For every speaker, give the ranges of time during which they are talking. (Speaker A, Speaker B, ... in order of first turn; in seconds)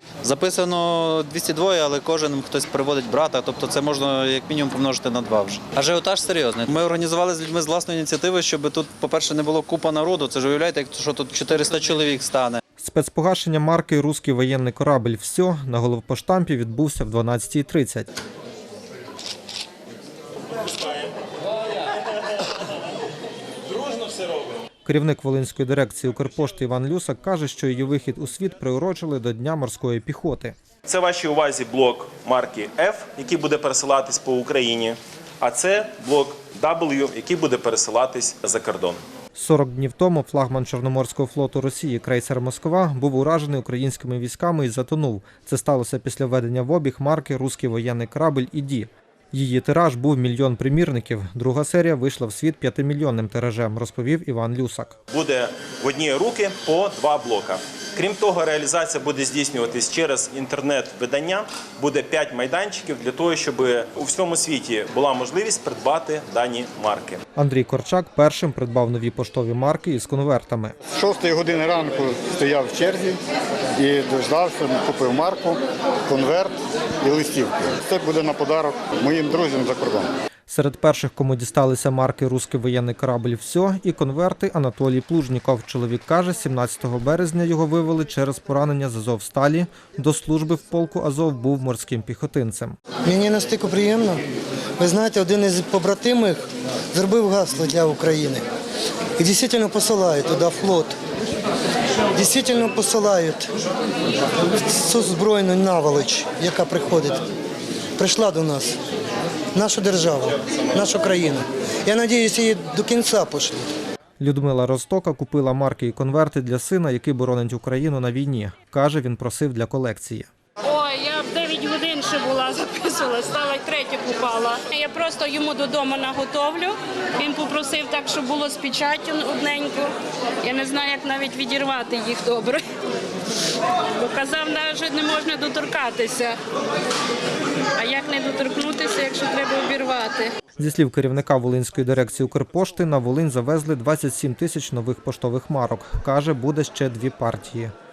Speaker A: 0.2-12.6
Speaker B: 12.8-18.1, 24.9-30.6, 39.3-54.9, 67.3-70.8, 80.5-92.8, 114.2-120.3, 140.6-147.7
Speaker C: 23.8-24.3, 30.8-39.0, 55.1-67.2
Speaker D: 70.9-73.2, 73.8-80.1
Speaker E: 93.0-94.2, 94.8-98.4, 99.2-100.9, 102.1-103.5, 104.6-107.2, 108.0-108.8, 109.5-113.6
Speaker F: 120.6-129.9, 130.4-132.6, 133.9-136.3, 137.8-140.3